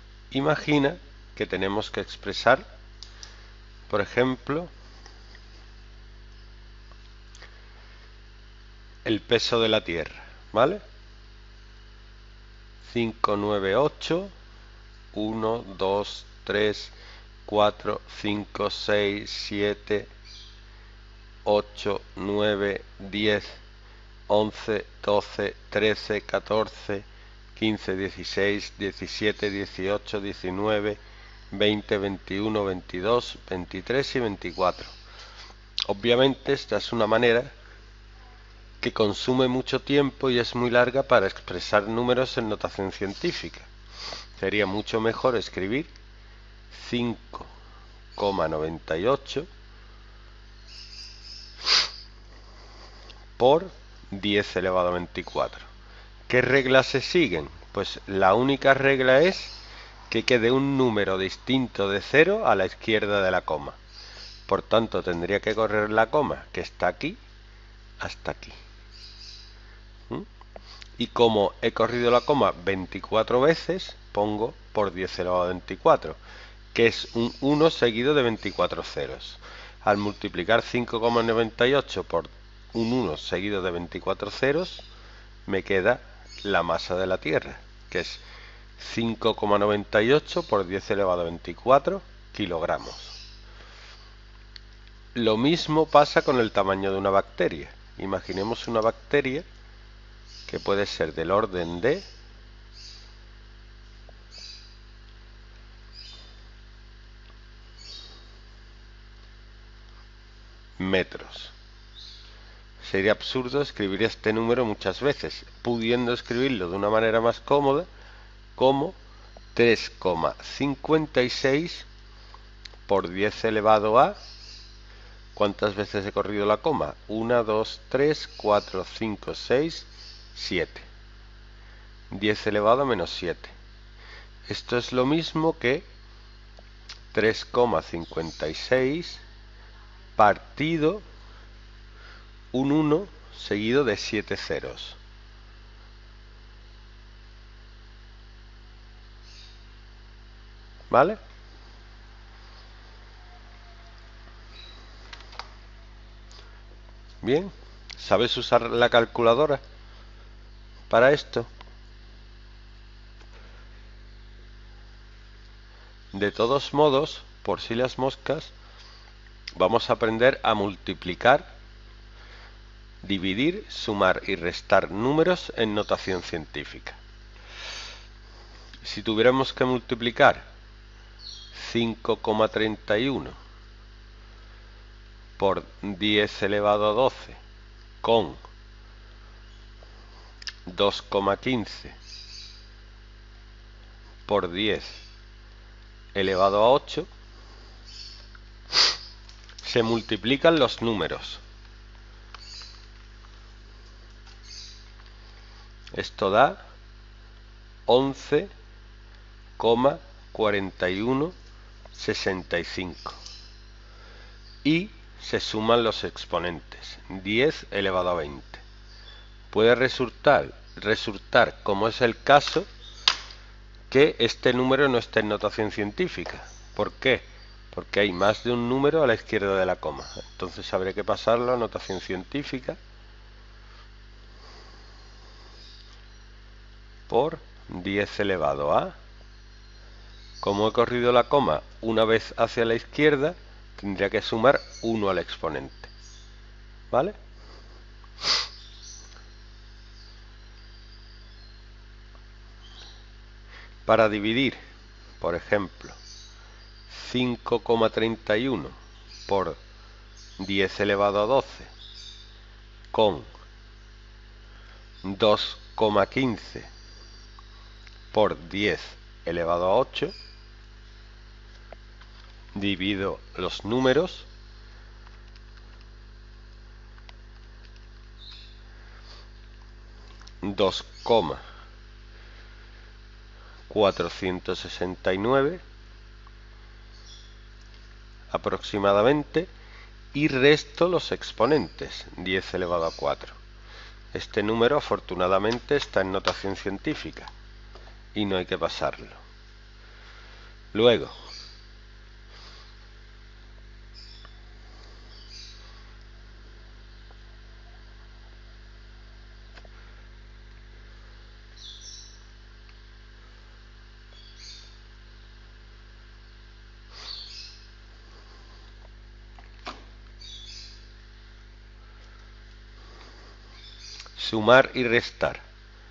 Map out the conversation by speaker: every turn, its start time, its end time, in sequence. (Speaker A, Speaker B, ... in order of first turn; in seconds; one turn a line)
Speaker A: 0.3-2.6
Speaker A: 3.9-4.7
Speaker A: 9.0-10.8
Speaker A: 12.8-14.3
Speaker A: 15.1-16.9
Speaker A: 17.4-20.1
Speaker A: 21.4-23.6
Speaker A: 24.3-31.0
Speaker A: 31.5-34.9
Speaker A: 35.9-37.5
Speaker A: 38.8-43.7
Speaker A: 44.4-45.9
Speaker A: 46.7-47.5
Speaker A: 48.1-49.5
Speaker A: 53.4-55.7
Speaker A: 56.3-59.5
Speaker A: 60.1-63.8
Speaker A: 64.5-67.2
Speaker A: 68.0-68.6
Speaker A: 71.0-76.2
Speaker A: 76.7-84.8
Speaker A: 85.5-88.2
Speaker A: 88.8-93.2
Speaker A: 95.1-99.5
Speaker A: 100.5-102.1
Speaker A: 110.8-111.5
Speaker A: 112.8-117.9
Speaker A: 118.5-119.0
Speaker A: 119.5-121.9
Speaker A: 122.8-124.2
Speaker A: 125.3-130.9
Speaker A: 132.1-133.5
Speaker A: 134.5-135.8
Speaker A: 137.1-139.2
Speaker A: 140.2-141.0
Speaker A: 142.5-145.0
Speaker A: 150.9-151.2
Speaker A: 157.2-159.6
Speaker A: 160.9-161.5
Speaker A: 166.1-168.5
Speaker A: 169.6-171.4
Speaker A: 173.0-177.0
Speaker A: 178.8-180.5
Speaker A: 181.5-183.4
Speaker A: 185.4-187.4
Speaker A: 188.0-188.4
Speaker A: 190.7-192.0
Speaker A: 194.2-195.0
Speaker A: 196.1-197.1
Speaker A: 199.6-201.4
Speaker A: 205.9-206.6
Speaker A: 207.8-208.5
Speaker A: 209.6-211.3
Speaker A: 211.9-213.2
Speaker A: 214.6-218.6
Speaker A: 219.5-222.7
Speaker A: 223.9-232.8
Speaker A: 237.1-238.9
Speaker A: 240.4-245.9
Speaker A: 246.9-247.2
Speaker A: 253.8-254.6
Speaker A: 255.2-256.0
Speaker A: 256.9-258.8
Speaker A: 259.3-259.6
Speaker A: 260.4-261.7
Speaker A: 262.9-263.3
Speaker A: 265.0-266.7
Speaker A: 268.1-270.1
Speaker A: 272.5-274.3
Speaker A: 280.4-281.4
Speaker A: 283.7-285.6
Speaker A: 288.3-289.5
Speaker A: 290.1-293.4
Speaker A: 294.1-297.3
Speaker A: 298.1-299.2
Speaker A: 300.7-301.1
Speaker A: 324.1-325.4